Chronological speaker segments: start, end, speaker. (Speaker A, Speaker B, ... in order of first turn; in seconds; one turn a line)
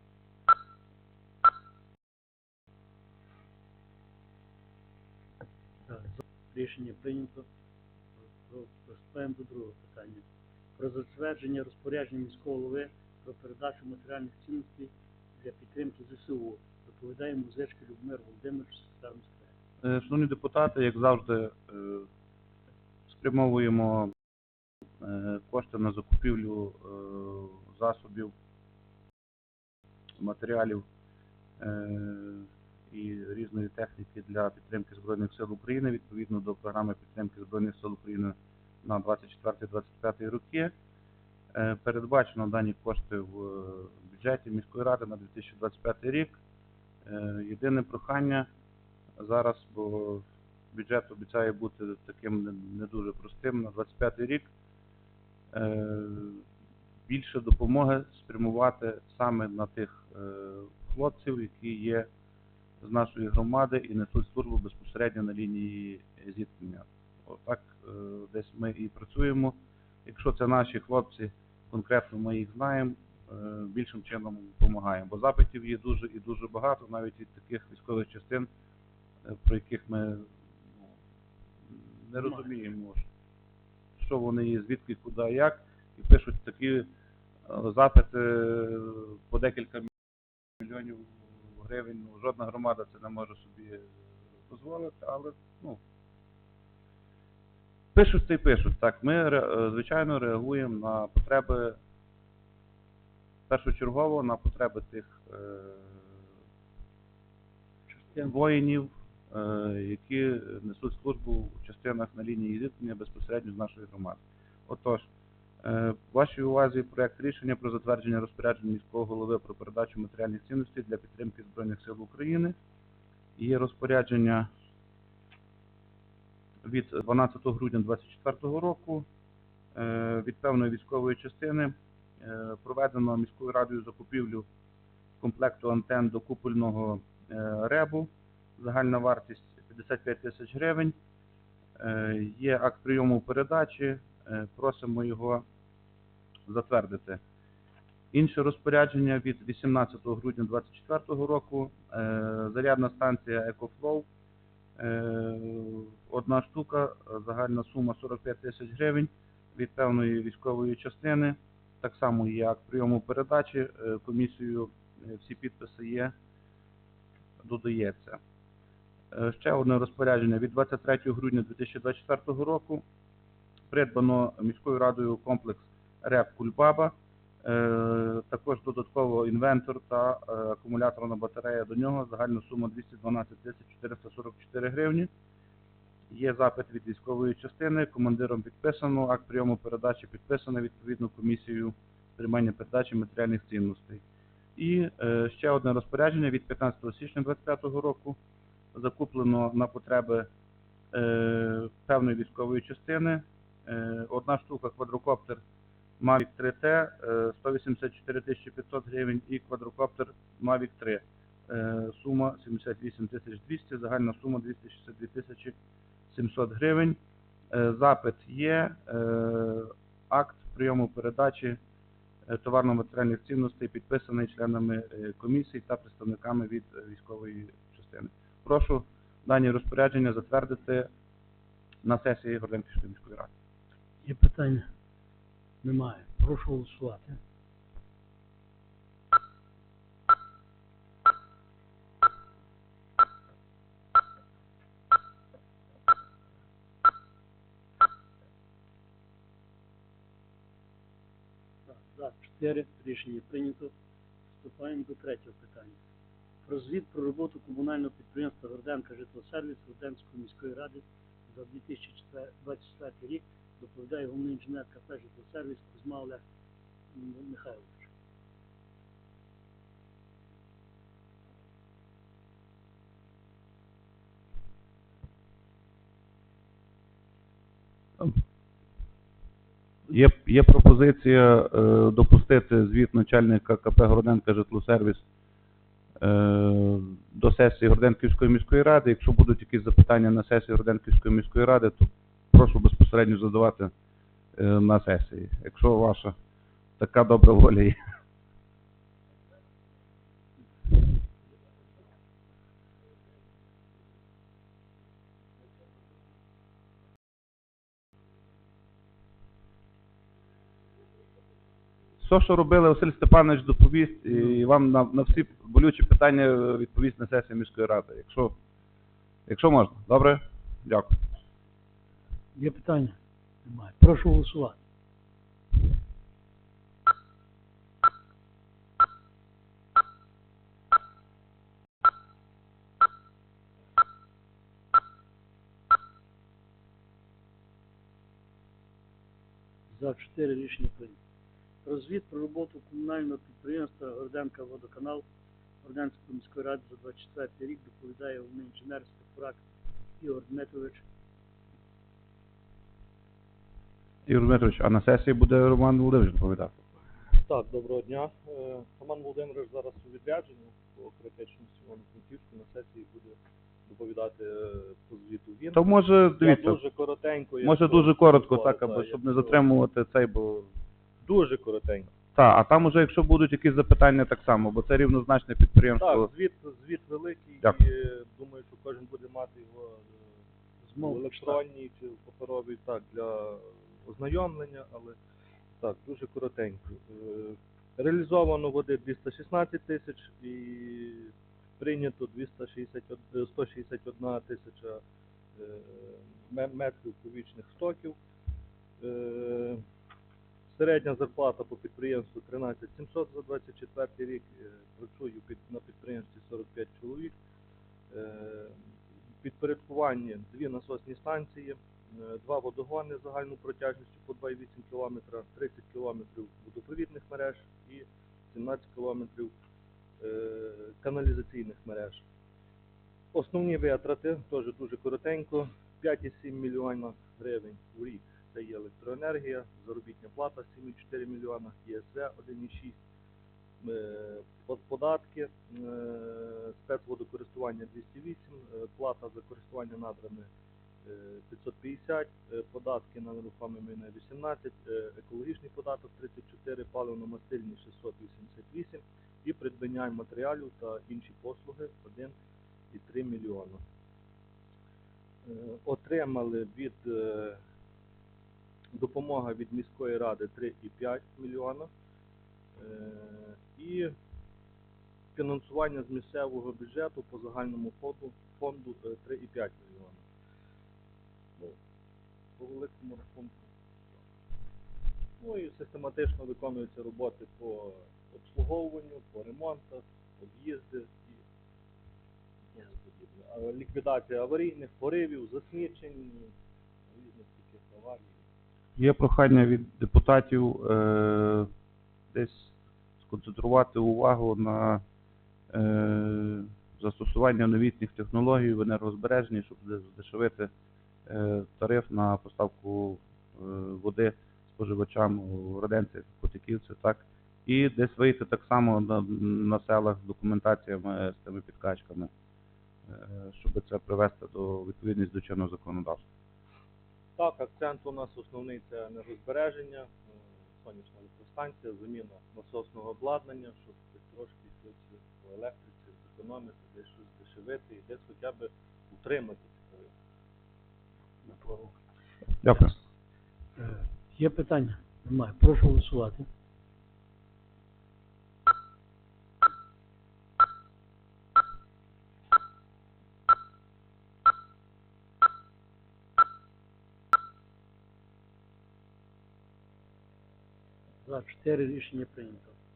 Speaker A: 5.9-7.5
Speaker A: 8.4-10.2
Speaker A: 10.8-19.5
Speaker B: 19.8-22.1
Speaker B: 23.1-24.1
Speaker B: 25.0-28.3
Speaker B: 30.2-30.8
Speaker B: 31.6-40.7
Speaker B: 41.5-46.4
Speaker B: 47.0-48.5
Speaker B: 49.2-54.5
Speaker B: 55.5-56.4
Speaker B: 57.1-62.1
Speaker B: 62.8-78.5
Speaker B: 79.3-80.3
Speaker B: 81.7-83.0
Speaker B: 84.0-86.9
Speaker B: 87.5-89.9
Speaker B: 90.6-93.9
Speaker B: 94.5-95.8
Speaker B: 97.9-101.8
Speaker B: 103.5-106.2
Speaker A: 107.9-108.3
Speaker B: 108.1-115.1
Speaker B: 115.6-122.5
Speaker B: 123.4-124.5
Speaker B: 126.6-129.1
Speaker B: 129.8-134.4
Speaker B: 135.2-140.9
Speaker B: 141.8-145.4
Speaker B: 146.5-147.2
Speaker B: 148.1-154.1
Speaker B: 154.8-166.1
Speaker B: 167.4-168.2
Speaker B: 169.1-172.8
Speaker B: 173.7-185.1
Speaker B: 186.1-194.0
Speaker B: 194.6-198.2
Speaker B: 198.7-200.3
Speaker B: 200.9-205.4
Speaker B: 206.0-215.5
Speaker B: 216.1-217.0
Speaker B: 217.5-221.6
Speaker B: 222.3-230.9
Speaker B: 231.8-233.3
Speaker A: 234.0-234.7
Speaker A: 235.6-237.2
Speaker A: 251.7-253.7
Speaker A: 254.4-255.8
Speaker A: 256.4-266.2
Speaker A: 266.9-267.9
Speaker B: 279.9-285.0
Speaker B: 286.0-293.7
Speaker B: 294.4-296.1
Speaker B: 296.8-297.8
Speaker B: 312.0-318.4
Speaker B: 319.3-320.9
Speaker A: 322.3-324.6
Speaker A: 339.7-341.0
Speaker A: 341.6-345.0
Speaker A: 345.6-349.4
Speaker A: 350.0-350.8
Speaker B: 354.1-356.6
Speaker C: 357.2-365.6
Speaker B: 365.5-366.6
Speaker C: 366.2-369.4
Speaker B: 367.4-370.5
Speaker C: 371.0-371.9
Speaker B: 372.1-376.1
Speaker C: 375.8-380.0
Speaker A: 380.6-381.4
Speaker C: 380.8-385.0
Speaker C: 385.6-394.8
Speaker C: 395.4-398.0
Speaker C: 398.8-399.6
Speaker C: 400.5-407.1
Speaker C: 407.9-408.6
Speaker C: 409.2-419.3
Speaker C: 420.0-422.0
Speaker C: 423.1-432.8
Speaker C: 433.6-440.3
Speaker C: 440.8-452.1
Speaker C: 452.7-453.6
Speaker C: 455.2-457.4
Speaker C: 458.7-461.7
Speaker C: 462.6-463.9
Speaker C: 465.1-470.0
Speaker C: 472.4-473.5
Speaker C: 475.2-481.2
Speaker C: 482.5-486.3
Speaker C: 486.9-488.2
Speaker B: 488.8-491.5
Speaker B: 492.1-494.8
Speaker B: 495.5-500.5
Speaker B: 501.1-512.1
Speaker B: 512.9-516.0
Speaker C: 517.2-520.0
Speaker C: 520.6-529.9
Speaker A: 531.2-531.8
Speaker B: 532.4-532.7
Speaker A: 533.6-536.3
Speaker A: 551.0-552.5